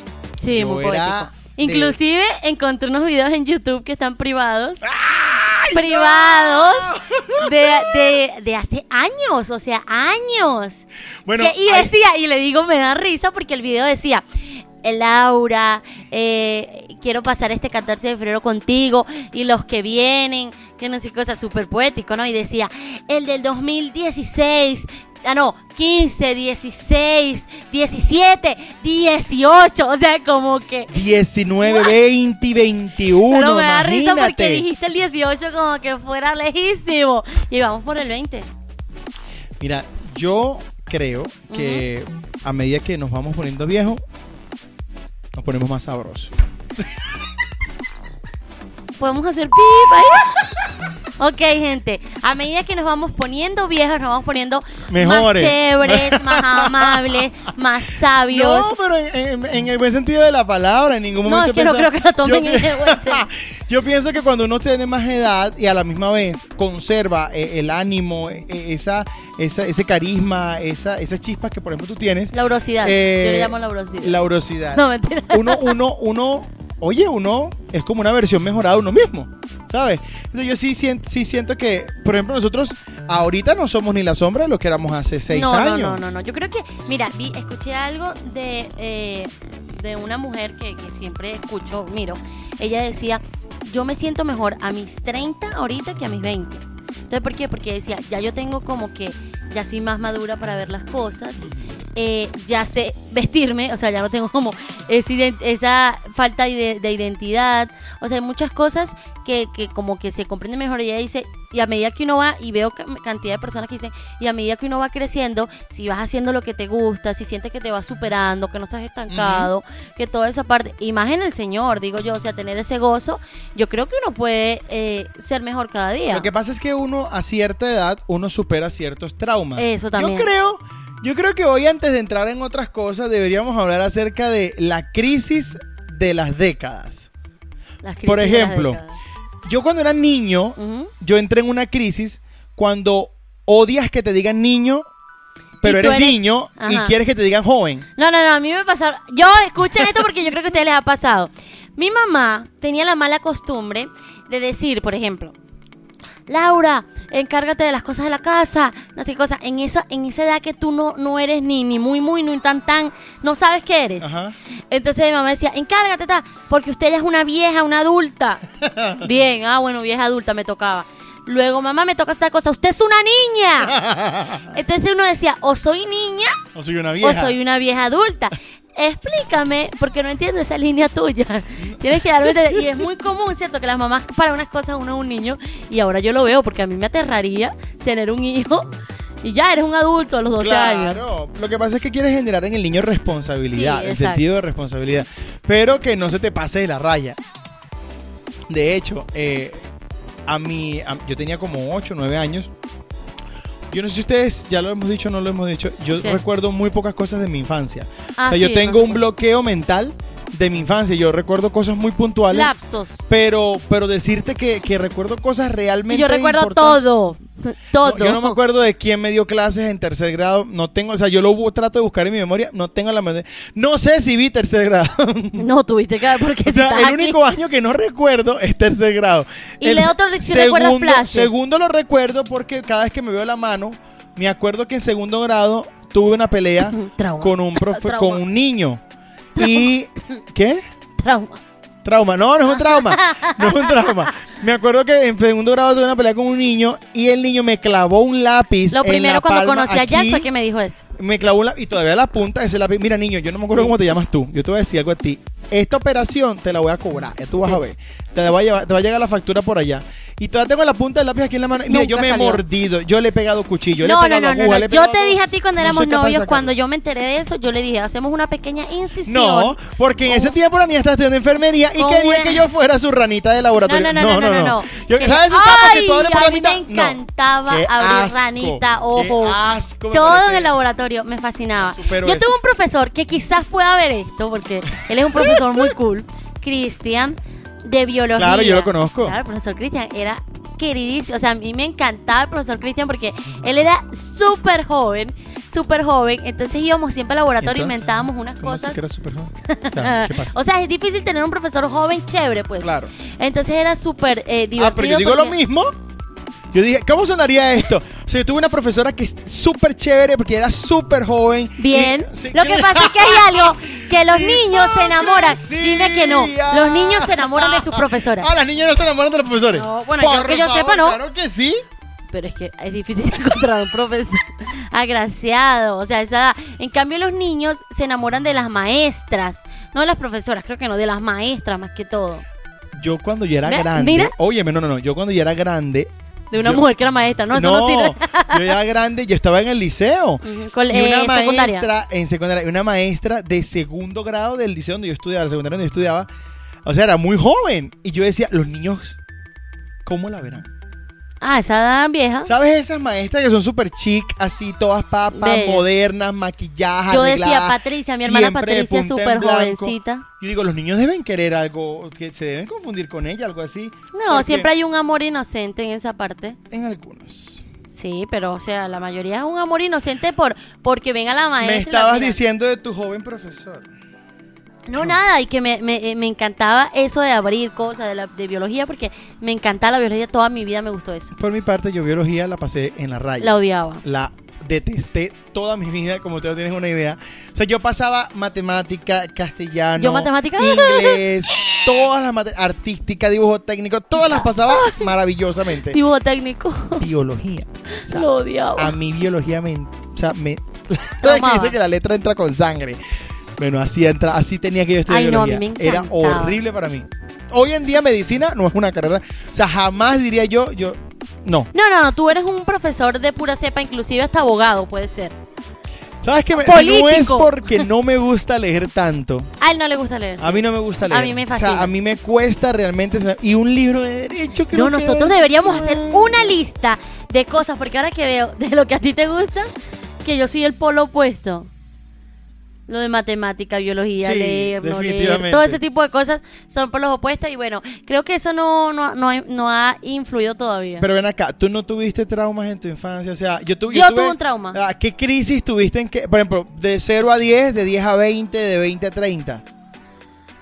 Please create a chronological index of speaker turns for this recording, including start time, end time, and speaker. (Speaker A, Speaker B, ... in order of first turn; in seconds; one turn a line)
Speaker A: 0.4-4.9
Speaker B: 0.5-2.0
Speaker B: 4.8-7.9
Speaker A: 5.7-14.2
Speaker B: 11.3-11.9
Speaker A: 14.8-30.9
Speaker B: 30.9-34.6
Speaker A: 31.6-32.0
Speaker A: 33.2-38.5
Speaker B: 39.6-44.0
Speaker A: 41.5-41.9
Speaker B: 45.4-47.1
Speaker A: 49.0-50.4
Speaker B: 50.3-50.6
Speaker A: 51.2-58.8
Speaker B: 54.9-57.2
Speaker B: 58.3-86.0
Speaker A: 61.2-63.3
Speaker A: 72.3-74.2
Speaker A: 74.7-75.8
Speaker A: 85.3-126.3
Speaker B: 119.1-119.5
Speaker B: 126.1-137.1
Speaker A: 129.6-130.3
Speaker A: 137.8-138.9
Speaker B: 138.1-138.8
Speaker B: 139.4-144.8
Speaker A: 140.6-140.9
Speaker B: 145.6-147.9
Speaker A: 145.6-146.9
Speaker A: 148.0-155.3
Speaker A: 156.3-164.1
Speaker B: 164.0-164.3
Speaker A: 164.7-168.4
Speaker B: 168.6-169.1
Speaker A: 169.0-173.8
Speaker B: 173.7-174.5
Speaker A: 174.4-176.4
Speaker B: 176.6-177.3
Speaker A: 177.0-188.7
Speaker B: 181.7-182.7
Speaker A: 189.2-191.0
Speaker B: 190.4-197.2
Speaker A: 193.5-194.2
Speaker B: 198.5-199.6
Speaker B: 200.3-202.5
Speaker B: 203.7-212.5
Speaker A: 208.2-209.0
Speaker A: 212.3-213.0
Speaker B: 213.1-216.8
Speaker A: 215.9-218.4
Speaker B: 217.8-225.4
Speaker A: 225.4-227.2
Speaker B: 226.4-238.8
Speaker A: 229.6-231.4
Speaker A: 236.6-238.2
Speaker B: 239.3-240.6
Speaker A: 239.4-239.7
Speaker A: 241.0-241.4
Speaker B: 241.8-250.3
Speaker A: 242.6-244.2
Speaker A: 248.7-250.8
Speaker B: 251.0-266.5
Speaker A: 261.7-262.4
Speaker A: 263.8-270.4
Speaker B: 269.1-280.6
Speaker A: 271.8-272.4
Speaker A: 273.6-279.4
Speaker A: 279.9-298.8
Speaker B: 281.8-282.4
Speaker B: 285.0-285.7
Speaker B: 288.2-289.2
Speaker B: 297.4-300.4
Speaker A: 299.5-305.4
Speaker B: 302.6-302.9
Speaker B: 304.6-305.7
Speaker B: 306.5-321.6
Speaker A: 311.6-318.3
Speaker A: 319.6-321.0
Speaker A: 322.1-332.2
Speaker B: 332.8-336.6
Speaker A: 333.5-334.1
Speaker A: 336.3-338.6
Speaker B: 337.3-346.1
Speaker A: 340.2-341.7
Speaker B: 346.6-349.0
Speaker B: 349.9-350.5
Speaker A: 351.2-352.3
Speaker B: 352.3-364.5
Speaker A: 355.1-355.6
Speaker A: 356.9-360.1
Speaker A: 363.9-366.4
Speaker B: 366.5-367.4
Speaker A: 367.7-372.2
Speaker B: 371.4-373.7
Speaker A: 374.7-381.1
Speaker B: 381.2-395.8
Speaker A: 383.2-383.8
Speaker A: 389.8-391.6
Speaker A: 394.0-394.9
Speaker A: 395.6-396.8
Speaker B: 396.8-402.8
Speaker A: 397.8-398.7
Speaker A: 401.0-401.6
Speaker B: 403.4-411.5
Speaker A: 404.9-406.4
Speaker A: 411.5-415.1
Speaker B: 416.0-419.3
Speaker A: 416.3-417.7
Speaker A: 419.4-421.7
Speaker B: 420.2-426.1
Speaker A: 424.5-429.5
Speaker A: 430.0-431.5
Speaker A: 432.7-440.9
Speaker B: 434.0-435.6
Speaker B: 440.8-449.4
Speaker A: 443.7-444.6